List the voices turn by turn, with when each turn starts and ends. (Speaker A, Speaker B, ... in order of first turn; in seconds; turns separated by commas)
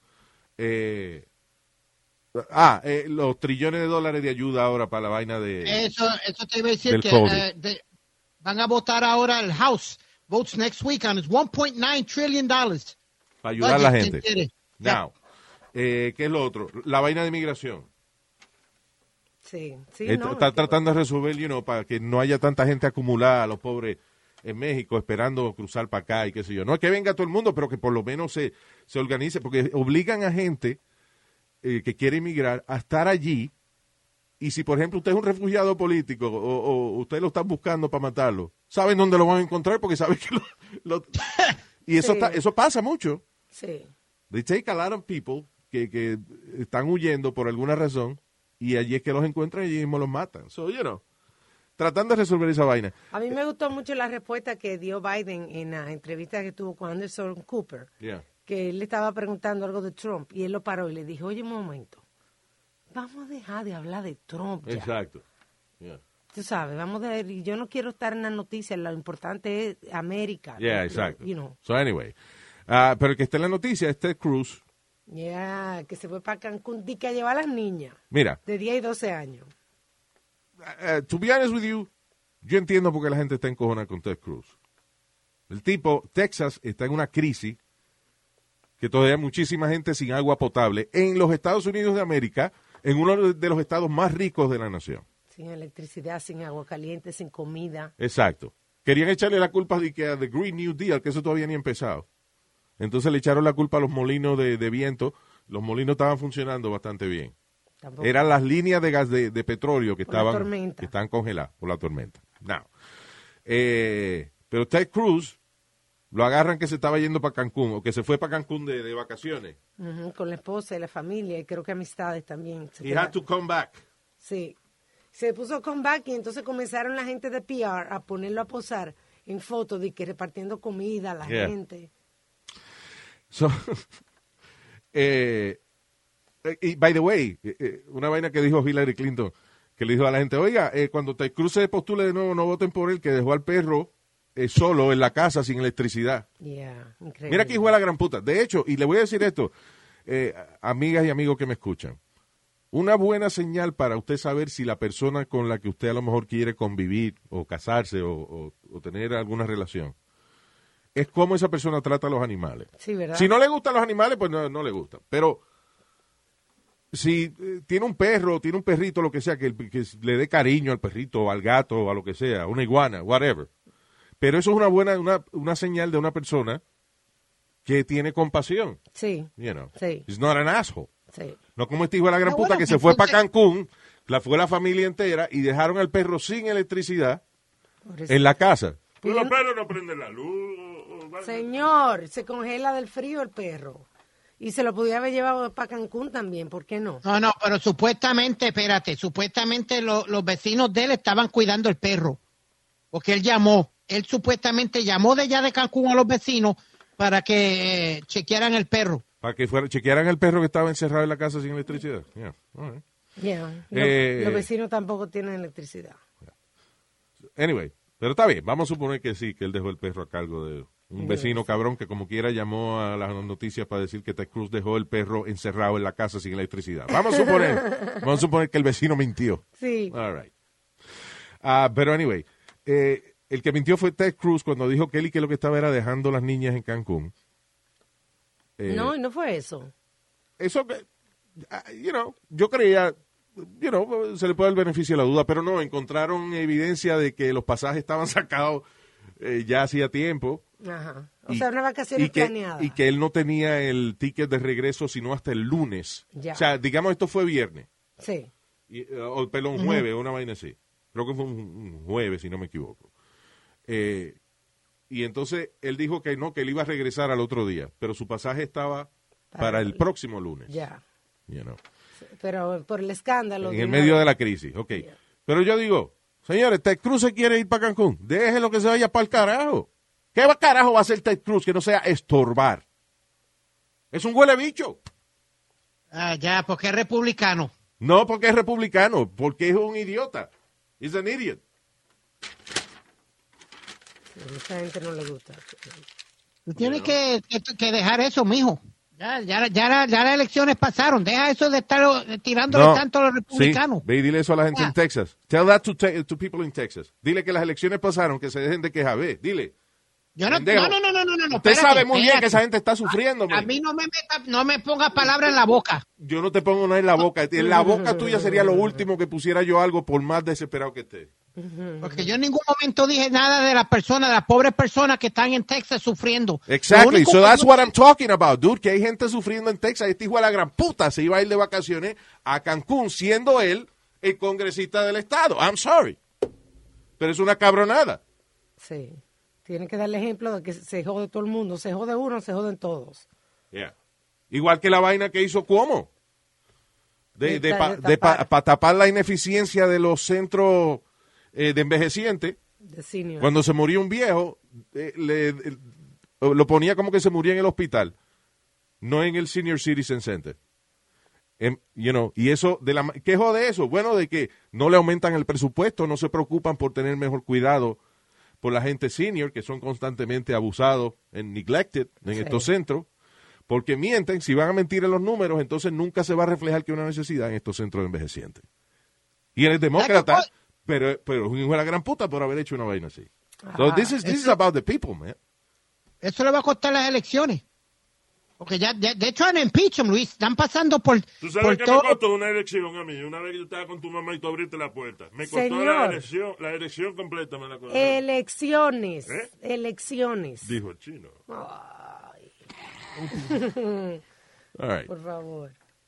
Speaker A: 0.6-1.2, Speaker A: 2.3-5.8, Speaker B: 5.6-7.8, Speaker A: 6.9-7.4, Speaker B: 8.4-12.9, Speaker A: 13.4-14.2, Speaker B: 13.6-15.0, Speaker A: 14.8-15.1, Speaker A: 15.7-17.9, Speaker C: 19.4-20.8, Speaker A: 20.1-30.8, Speaker A: 31.6-33.5, Speaker A: 34.4-43.2, Speaker C: 42.0-42.4, Speaker C: 43.5-43.9, Speaker A: 44.3-51.0, Speaker A: 51.8-52.9, Speaker C: 53.1-57.9, Speaker C: 58.4-62.0, Speaker C: 62.9-64.9, Speaker A: 64.7-65.2, Speaker C: 66.3-71.5, Speaker A: 70.6-72.1, Speaker A: 72.7-74.6, Speaker C: 75.1-79.5, Speaker A: 78.1-78.4, Speaker A: 80.6-81.9, Speaker A: 82.4-84.5, Speaker A: 85.5-87.6, Speaker A: 88.8-95.0, Speaker C: 95.3-97.9, Speaker A: 98.0-102.0, Speaker A: 102.8-107.3, Speaker C: 107.8-108.1, Speaker A: 108.0-112.7, Speaker C: 110.1-110.9, Speaker A: 113.5-115.4, Speaker A: 116.1-119.5, Speaker C: 119.8-123.2, Speaker A: 122.8-123.8, Speaker C: 124.2-124.5, Speaker C: 125.1-131.9, Speaker A: 131.2-131.5, Speaker A: 133.3-133.8, Speaker A: 134.9-135.6, Speaker A: 136.4-146.2, Speaker C: 146.4-147.7, Speaker A: 147.3-149.5, Speaker A: 150.1-152.0, Speaker A: 152.7-159.9, Speaker A: 160.9-165.4, Speaker C: 162.8-163.3, Speaker A: 166.9-173.5, Speaker A: 174.2-176.6, Speaker A: 177.6-178.8, Speaker C: 178.9-180.0, Speaker A: 179.4-180.9, Speaker C: 181.1-181.4, Speaker A: 181.6-187.2, Speaker B: 182.2-183.2, Speaker C: 187.8-188.2, Speaker A: 188.1-188.8, Speaker C: 189.0-189.3, Speaker D: 189.0-191.6, Speaker C: 191.2-193.9, Speaker C: 194.4-197.0, Speaker B: 197.0-202.2, Speaker B: 202.9-209.0, Speaker A: 209.2-212.8, Speaker C: 213.2-216.0, Speaker A: 213.7-214.5, Speaker A: 217.3-230.3, Speaker C: 221.0-221.5, Speaker C: 227.3-228.0, Speaker C: 229.6-229.9, Speaker A: 231.4-237.1, Speaker A: 238.6-238.9, Speaker C: 238.7-239.7, Speaker A: 240.4-240.8, Speaker A: 241.4-248.6, Speaker A: 249.2-250.4, Speaker C: 250.6-252.8, Speaker A: 251.3-257.7, Speaker C: 256.1-256.4, Speaker C: 258.0-258.3, Speaker A: 258.7-262.9, Speaker B: 259.6-259.8, Speaker A: 263.7-264.2, Speaker A: 264.9-270.5, Speaker C: 269.3-269.8, Speaker C: 270.5-270.8, Speaker A: 271.3-271.6, Speaker C: 272.0-274.1, Speaker A: 273.4-282.6, Speaker A: 283.9-284.8, Speaker B: 285.9-287.5, Speaker A: 287.8-291.4, Speaker C: 294.1-295.8, Speaker B: 296.4-303.8, Speaker A: 296.6-296.9, Speaker A: 302.5-309.5, Speaker B: 310.1-315.8, Speaker A: 310.3-310.8, Speaker A: 311.3-313.5, Speaker A: 316.0-321.1, Speaker C: 317.5-318.8, Speaker C: 321.4-322.1, Speaker B: 321.8-327.7, Speaker A: 326.5-336.0, Speaker A: 337.0-338.0, Speaker C: 338.6-343.0, Speaker A: 344.3-345.9, Speaker A: 347.1-350.8, Speaker C: 347.2-348.2, Speaker A: 351.3-352.4, Speaker C: 352.6-353.3, Speaker A: 353.2-355.7, Speaker A: 356.2-357.9, Speaker A: 358.8-360.4, Speaker A: 361.4-367.8, Speaker A: 368.4-372.9, Speaker C: 372.1-372.5, Speaker A: 373.5-378.4, Speaker A: 379.4-385.1, Speaker B: 379.8-380.3, Speaker C: 383.4-383.9, Speaker B: 384.0-384.3, Speaker B: 386.0-387.4, Speaker B: 388.4-392.0, Speaker D: 391.2-398.0, Speaker C: 395.2-396.0, Speaker C: 397.7-400.5, Speaker D: 400.4-401.1, Speaker C: 401.3-402.3, Speaker C: 403.1-404.0, Speaker A: 404.6-404.9, Speaker C: 404.9-405.5